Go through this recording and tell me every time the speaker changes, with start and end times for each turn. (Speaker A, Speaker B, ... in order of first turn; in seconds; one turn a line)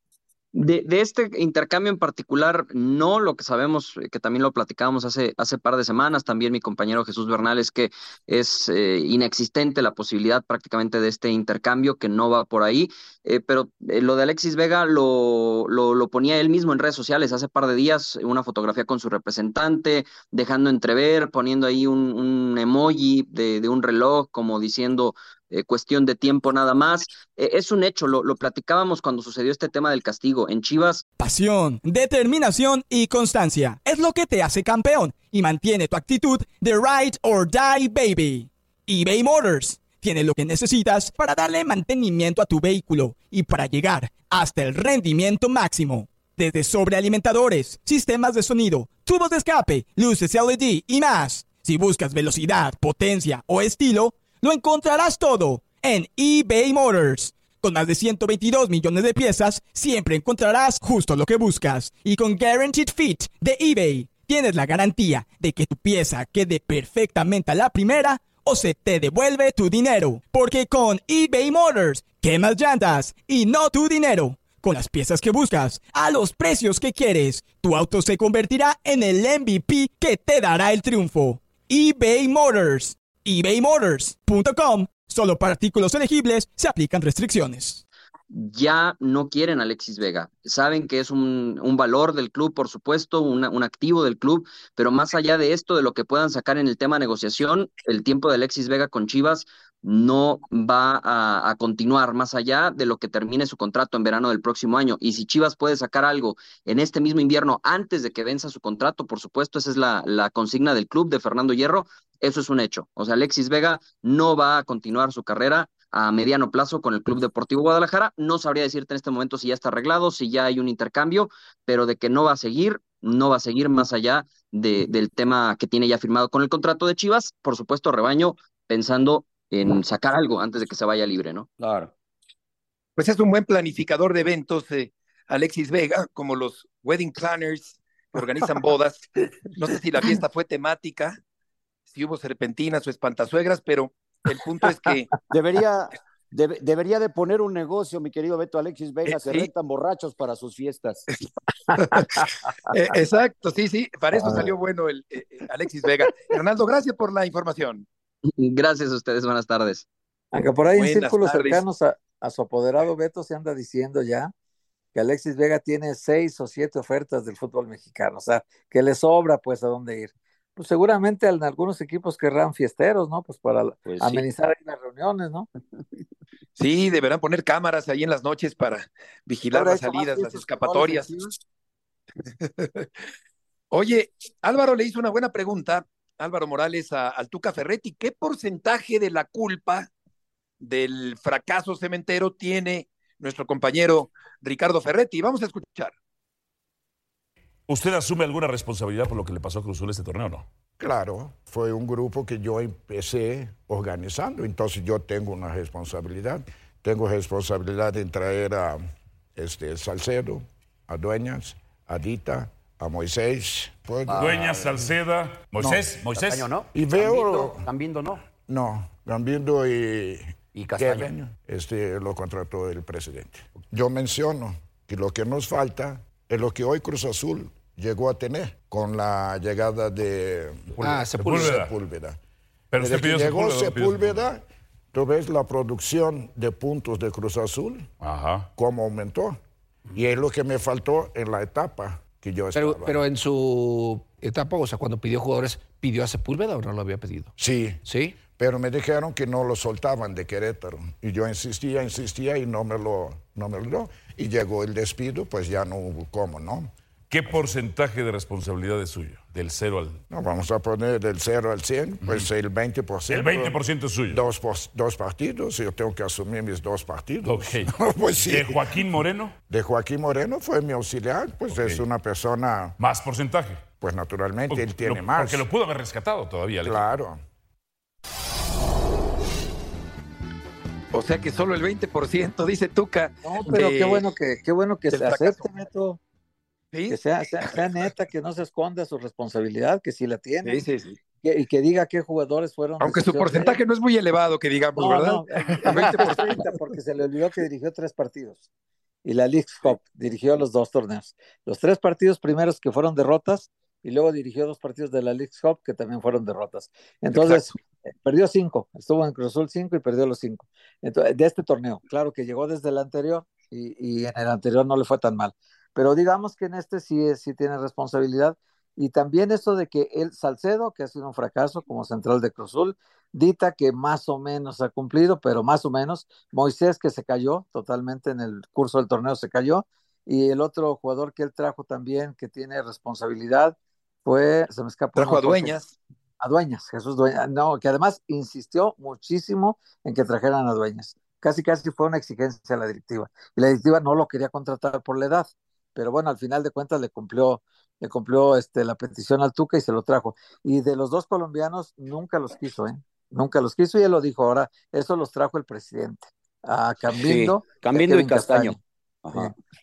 Speaker A: 0.5-31.0
Speaker B: 31.2-87.8
Speaker A: 88.3-131.5
Speaker C: 131.6-131.9
Speaker D: 133.0-141.2
Speaker D: 141.9-145.1
Speaker C: 145.3-151.1
Speaker D: 149.1-149.5
Speaker D: 151.9-152.2
Speaker D: 152.7-157.8
Speaker A: 158.3-159.8
Speaker E: 160.3-164.3
Speaker D: 160.7-161.6
Speaker E: 164.9-175.5
Speaker C: 173.8-174.2
Speaker D: 176.6-181.1
Speaker E: 179.5-181.3
Speaker D: 182.4-182.8
Speaker D: 183.7-189.9
Speaker D: 190.6-195.9
Speaker F: 197.7-200.5
Speaker G: 200.8-208.8
Speaker G: 209.3-214.5
Speaker C: 214.1-214.9
Speaker F: 214.2-216.5
Speaker C: 215.6-218.2
Speaker G: 216.7-217.7
Speaker G: 218.3-232.2
Speaker C: 220.5-221.1
Speaker F: 230.7-231.7
Speaker H: 230.8-231.6
Speaker F: 232.7-234.3
Speaker G: 232.8-237.9
Speaker F: 238.0-238.5
Speaker G: 238.5-239.4
Speaker G: 239.9-243.0
Speaker H: 242.5-247.3
Speaker G: 247.4-256.7
Speaker H: 247.8-248.2
Speaker F: 257.1-260.0
Speaker G: 260.1-268.8
Speaker F: 263.1-264.2
Speaker F: 267.2-269.3
Speaker G: 269.5-272.8
Speaker F: 271.5-271.8
Speaker F: 272.8-273.7
Speaker G: 273.8-275.4
Speaker F: 274.5-276.9
Speaker G: 276.6-277.2
Speaker D: 280.9-284.1
Speaker E: 283.2-286.0
Speaker D: 284.9-285.4
Speaker D: 286.7-287.6
Speaker E: 286.9-290.6
Speaker D: 290.4-290.9
Speaker E: 291.2-293.6
Speaker D: 292.8-296.4
Speaker E: 294.8-298.4
Speaker E: 299.0-335.6
Speaker D: 307.1-307.4
Speaker D: 334.9-335.8
Speaker E: 336.2-358.6
Speaker C: 356.9-359.3